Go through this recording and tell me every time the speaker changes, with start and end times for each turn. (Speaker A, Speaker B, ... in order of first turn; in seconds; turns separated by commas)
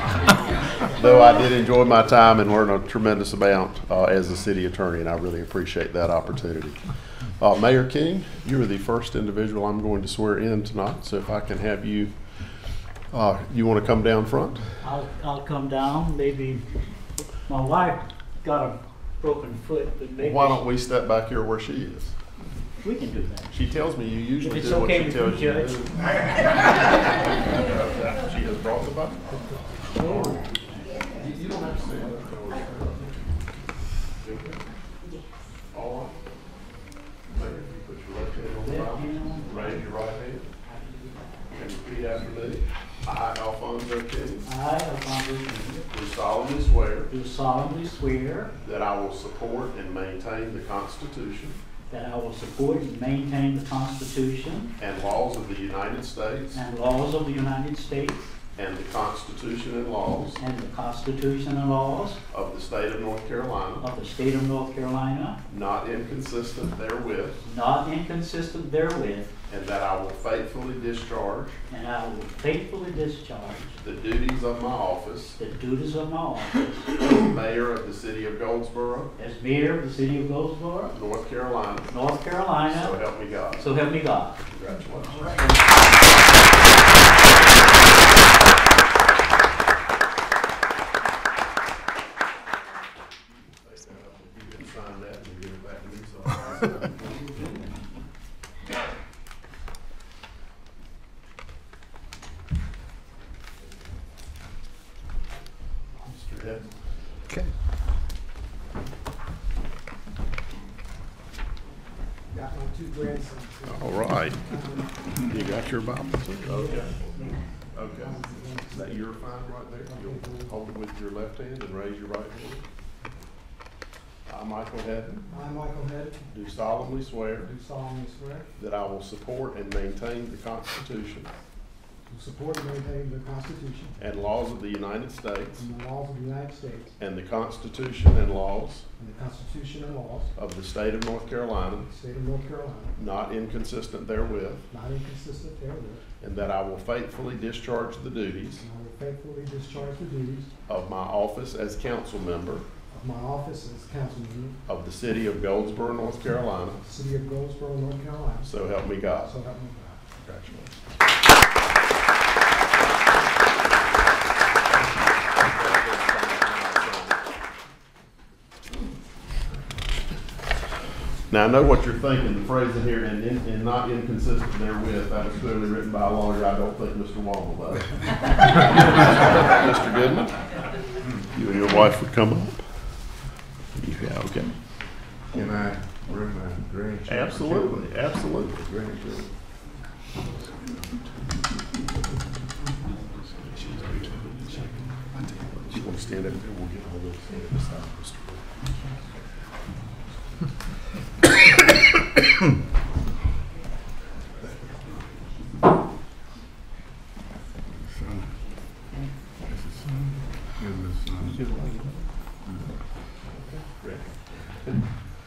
Speaker A: 0.9-12.1, Speaker A: 13.1-14.7, Speaker B: 14.8-16.6, Speaker B: 17.4-20.6, Speaker A: 20.2-22.1, Speaker B: 22.8-23.6, Speaker A: 23.5-29.4, Speaker B: 24.4-25.8, Speaker B: 29.9-30.9, Speaker A: 30.0-30.5, Speaker A: 31.1-33.4, Speaker A: 34.2-34.6, Speaker A: 35.7-36.2, Speaker A: 37.3-40.5, Speaker B: 38.6-39.8, Speaker B: 40.6-41.4, Speaker A: 41.5-44.5, Speaker B: 44.5-45.9, Speaker A: 45.9-47.1, Speaker B: 47.1-48.5, Speaker A: 48.6-51.6, Speaker B: 51.9-54.7, Speaker A: 54.8-56.6, Speaker B: 56.5-58.3, Speaker A: 58.5-60.4, Speaker B: 60.4-62.2, Speaker A: 62.3-63.9, Speaker B: 63.8-65.4, Speaker A: 65.5-67.4, Speaker B: 67.4-69.3, Speaker A: 69.5-71.6, Speaker B: 71.7-73.8, Speaker A: 73.8-75.4, Speaker B: 75.4-76.9, Speaker A: 77.0-79.1, Speaker B: 79.2-80.9, Speaker A: 80.9-81.9, Speaker B: 81.9-83.0, Speaker A: 82.6-83.7, Speaker B: 83.5-84.4, Speaker A: 84.5-85.5, Speaker A: 93.3-97.5, Speaker A: 106.0-106.7, Speaker C: 112.3-115.0, Speaker A: 113.7-114.4, Speaker A: 115.2-116.9, Speaker C: 116.4-117.3, Speaker A: 117.7-122.6, Speaker C: 117.9-119.0, Speaker C: 119.8-120.5, Speaker A: 124.3-125.3, Speaker C: 125.3-126.3, Speaker A: 126.3-127.5, Speaker C: 127.4-128.5, Speaker A: 128.6-131.3, Speaker C: 132.1-134.0, Speaker A: 134.0-135.7, Speaker C: 135.6-136.9, Speaker A: 137.0-138.8, Speaker C: 139.0-140.3, Speaker A: 140.3-141.9, Speaker C: 141.8-143.0, Speaker A: 143.0-144.7, Speaker C: 144.7-146.0, Speaker A: 146.2-148.6, Speaker C: 148.6-150.5, Speaker A: 150.7-152.7, Speaker C: 152.9-154.6, Speaker A: 154.7-156.8, Speaker C: 156.8-158.5, Speaker A: 158.4-159.3, Speaker C: 159.2-160.0, Speaker A: 160.2-160.7, Speaker A: 165.4-167.2, Speaker A: 171.3-180.4, Speaker A: 181.3-182.6, Speaker A: 183.8-184.5, Speaker D: 185.3-189.3, Speaker A: 187.1-188.5, Speaker A: 193.3-198.4, Speaker D: 210.6-211.4, Speaker A: 213.3-214.1